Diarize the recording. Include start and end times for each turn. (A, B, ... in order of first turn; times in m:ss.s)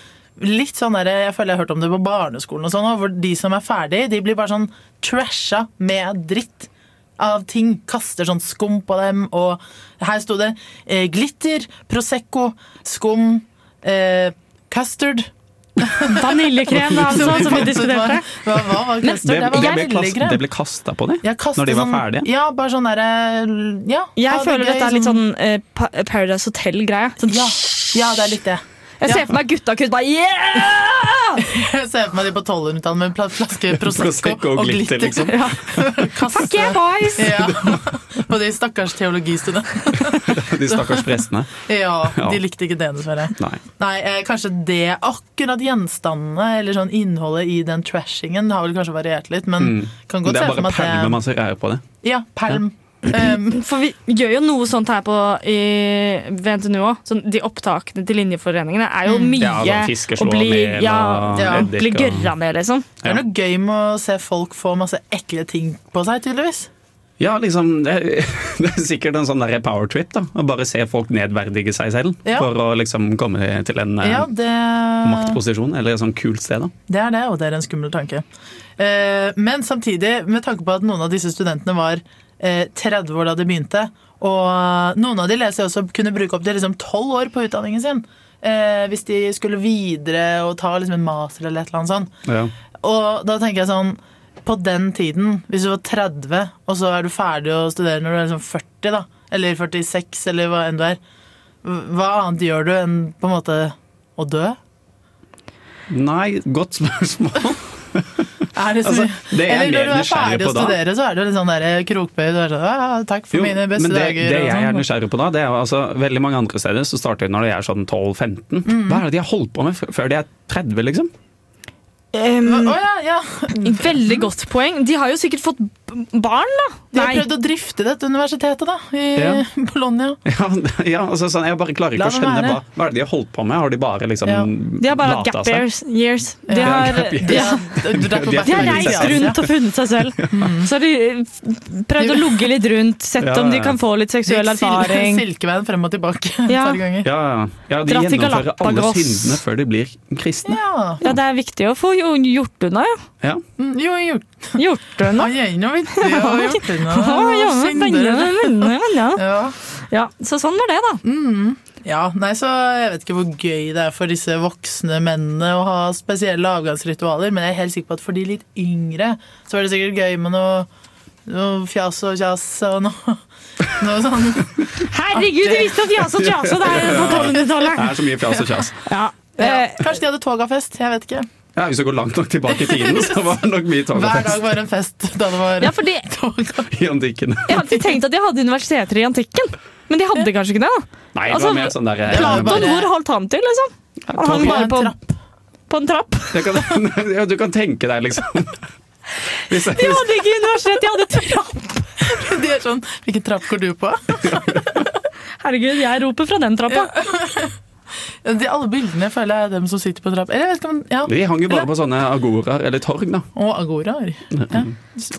0:00.4-0:16.3 A
0:16.1-0:18.3 B
0:16.7-0:17.7 C
0:17.0-0:20.4 A
0:19.0-0:19.8 B
0:19.2-0:22.3 C
0:21.2-0:25.2 A
0:24.2-0:28.3 B
0:27.2-0:29.3 A
0:29.0-0:31.4 B
0:31.4-0:51.2 A
0:33.7-0:35.4 C
0:35.2-0:37.4 B
0:37.3-0:37.9 C
0:40.1-0:42.4 C
0:49.6-0:51.8 C
0:52.0-0:53.6 A
0:53.4-1:02.9 B
0:59.1-0:59.4 A
0:59.4-1:02.3 C
1:01.4-1:01.7 A
1:03.0-1:06.7 A
1:07.2-1:14.3 C
1:14.0-1:15.4 A
1:15.0-1:16.7 C
1:16.9-1:18.2 A
1:18.8-1:32.1 A
1:32.3-1:32.5 C
1:32.8-1:41.0 A
1:41.6-1:44.6 A
1:45.9-1:48.3 C
1:48.5-1:54.9 A
1:48.8-1:50.8 C
1:53.3-2:01.1 C
1:58.6-1:59.0 A
2:02.1-2:02.8 B
2:02.4-2:04.3 A
2:03.6-2:07.3 B
2:06.9-2:10.2 A
2:09.2-2:09.4 C
2:10.3-2:15.6 C
2:11.9-2:12.6 A
2:14.2-2:14.5 A
2:14.8-2:17.6 B
2:16.5-2:19.4 A
2:16.6-2:19.5 C
2:18.4-2:25.2 B
2:20.2-2:20.4 C
2:20.3-2:20.7 A
2:22.0-2:22.5 A
2:23.2-2:23.8 C
2:24.3-2:27.1 A
2:26.5-2:26.8 B
2:27.0-2:31.1 C
2:27.9-2:29.4 B
2:30.5-2:31.0 A
2:31.0-2:33.0 B
2:33.6-2:39.6 A
2:34.6-2:35.3 B
2:35.9-2:41.0 B
2:41.0-2:50.7 A
2:51.3-2:55.9 A
2:54.9-2:58.0 B
2:56.2-2:58.8 C
2:56.8-2:57.4 A
2:58.8-2:59.9 B
2:59.4-3:01.3 A
3:01.6-3:04.4 C
3:02.5-3:03.2 A
3:03.9-3:06.7 A
3:05.6-3:06.1 B
3:06.7-3:07.7 C
3:07.5-3:14.9 B
3:11.1-3:12.7 C
3:12.1-3:12.9 A
3:14.1-3:15.2 A
3:14.2-3:14.6 C
3:15.7-3:16.4 B
3:16.3-3:18.6 C
3:19.5-3:20.2 C
3:19.6-3:22.0 B
3:22.0-3:24.8 A
3:25.4-3:26.9 B
3:26.7-3:27.6 A
3:28.2-3:31.6 A
3:31.1-3:33.3 C
3:33.4-3:34.7 A
3:34.3-3:34.7 C